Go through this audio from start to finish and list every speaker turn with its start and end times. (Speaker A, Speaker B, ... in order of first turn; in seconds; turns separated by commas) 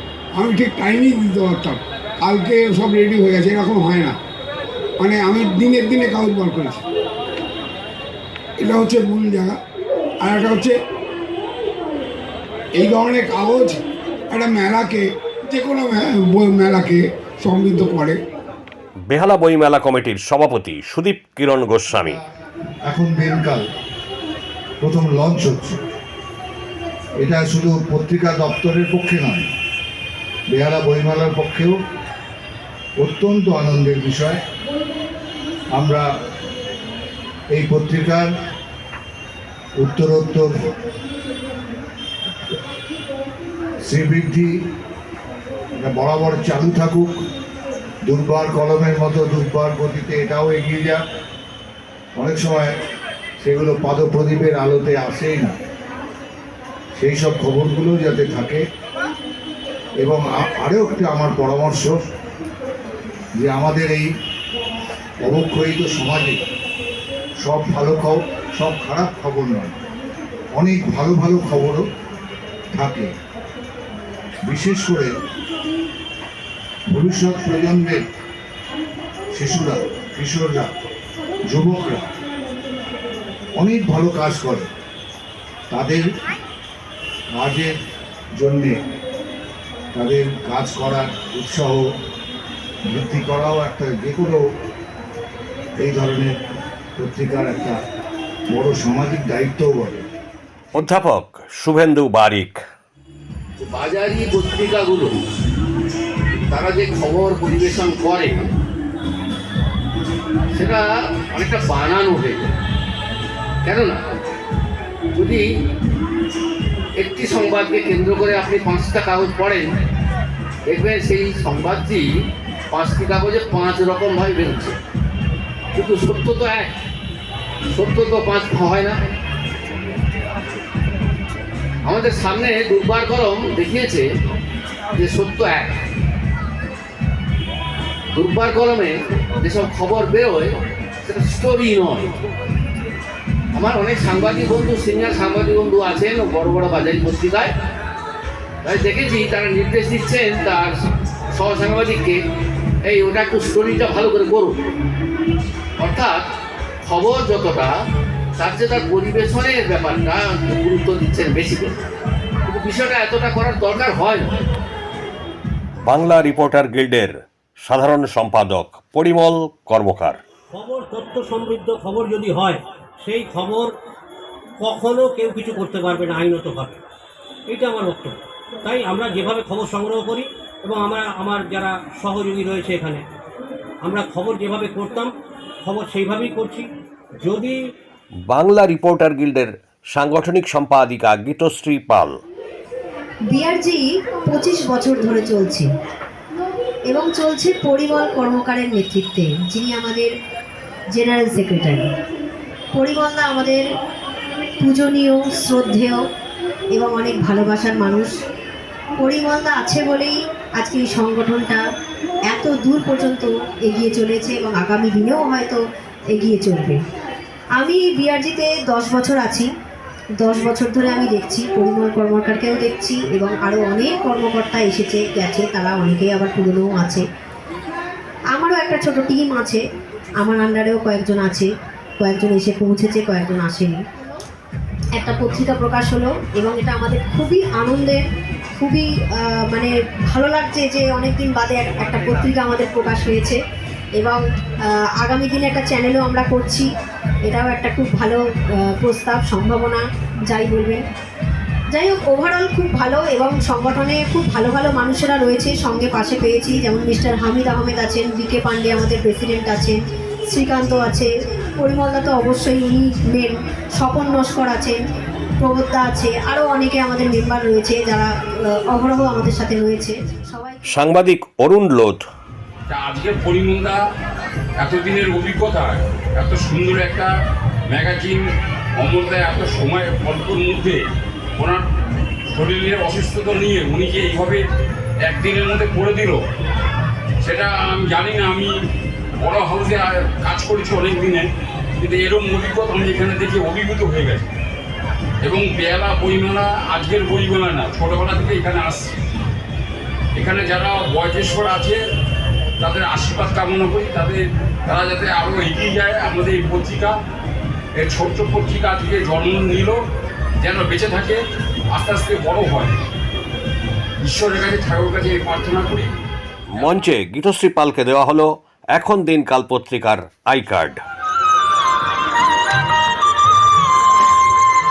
Speaker A: 0.3-4.2, Speaker A: 5.0-6.8, Speaker A: 8.6-9.6, Speaker A: 10.2-10.8, Speaker A: 12.8-13.8, Speaker A: 14.3-18.2, Speaker B: 19.1-22.2, Speaker C: 22.9-23.6, Speaker C: 24.8-25.8, Speaker C: 27.2-29.5, Speaker C: 30.5-31.8, Speaker C: 33.0-34.4, Speaker C: 35.7-36.1, Speaker C: 37.5-38.3, Speaker C: 39.8-40.5, Speaker C: 43.9-44.5, Speaker C: 45.8-47.2, Speaker C: 48.0-51.0, Speaker C: 52.2-52.7, Speaker C: 53.4-55.6, Speaker C: 57.0-58.6, Speaker C: 60.0-62.0, Speaker C: 63.4-64.1, Speaker C: 65.2-66.4, Speaker C: 67.4-69.7, Speaker C: 70.5-71.8, Speaker C: 72.7-73.1, Speaker C: 74.5-75.1, Speaker C: 76.9-78.0, Speaker C: 79.3-80.7, Speaker C: 81.5-82.1, Speaker C: 83.6-84.7, Speaker C: 85.7-86.0, Speaker C: 87.3-87.7, Speaker C: 88.4-88.8, Speaker C: 89.9-91.8, Speaker C: 92.9-94.4, Speaker C: 95.8-96.3, Speaker C: 97.0-97.8, Speaker C: 98.5-100.0, Speaker B: 100.7-102.6, Speaker D: 103.6-105.2, Speaker D: 106.5-108.5, Speaker D: 110.5-112.5, Speaker D: 113.6-114.1, Speaker D: 115.1-115.5, Speaker D: 117.0-119.7, Speaker D: 120.7-122.1, Speaker D: 122.7-124.8, Speaker D: 125.7-126.7, Speaker D: 127.7-129.1, Speaker D: 131.8-134.1, Speaker D: 134.9-135.8, Speaker D: 138.1-142.2, Speaker D: 143.5-147.6, Speaker D: 148.6-150.8, Speaker D: 151.3-152.2, Speaker D: 152.8-154.6, Speaker D: 155.8-156.3, Speaker D: 156.8-157.8, Speaker D: 158.4-161.8, Speaker D: 162.4-164.4, Speaker B: 165.8-167.1, Speaker B: 167.7-170.2, Speaker E: 170.5-173.7, Speaker E: 174.6-176.8, Speaker E: 177.5-183.0, Speaker E: 183.8-185.1, Speaker E: 185.7-186.7, Speaker E: 187.2-187.6, Speaker B: 188.3-192.2, Speaker F: 193.3-195.7, Speaker F: 196.9-200.1, Speaker F: 201.0-201.9, Speaker F: 202.8-203.6, Speaker F: 204.6-206.0, Speaker F: 206.8-208.1, Speaker F: 209.0-211.6, Speaker F: 212.3-215.6, Speaker F: 216.1-216.8, Speaker F: 217.6-219.5, Speaker F: 220.2-227.0, Speaker F: 228.3-229.6, Speaker F: 230.2-231.5, Speaker F: 232.0-233.8, Speaker F: 235.0-238.0, Speaker F: 238.6-243.4, Speaker F: 245.0-246.7, Speaker F: 247.3-250.8, Speaker F: 251.7-259.8, Speaker F: 260.3-264.8, Speaker F: 265.4-270.6, Speaker B: 270.7-272.1, Speaker G: 272.7-273.8, Speaker G: 274.6-277.1, Speaker G: 277.7-278.3, Speaker G: 278.8-280.8, Speaker G: 281.4-281.6, Speaker G: 282.3-284.4, Speaker G: 285.1-286.2, Speaker G: 287.2-288.6, Speaker G: 289.2-294.3, Speaker G: 295.2-298.9, Speaker G: 300.1-301.8, Speaker G: 302.6-307.0, Speaker G: 307.8-309.8, Speaker G: 310.4-311.2, Speaker G: 311.7-312.8, Speaker G: 314.1-315.9, Speaker G: 316.6-316.8, Speaker B: 316.6-320.8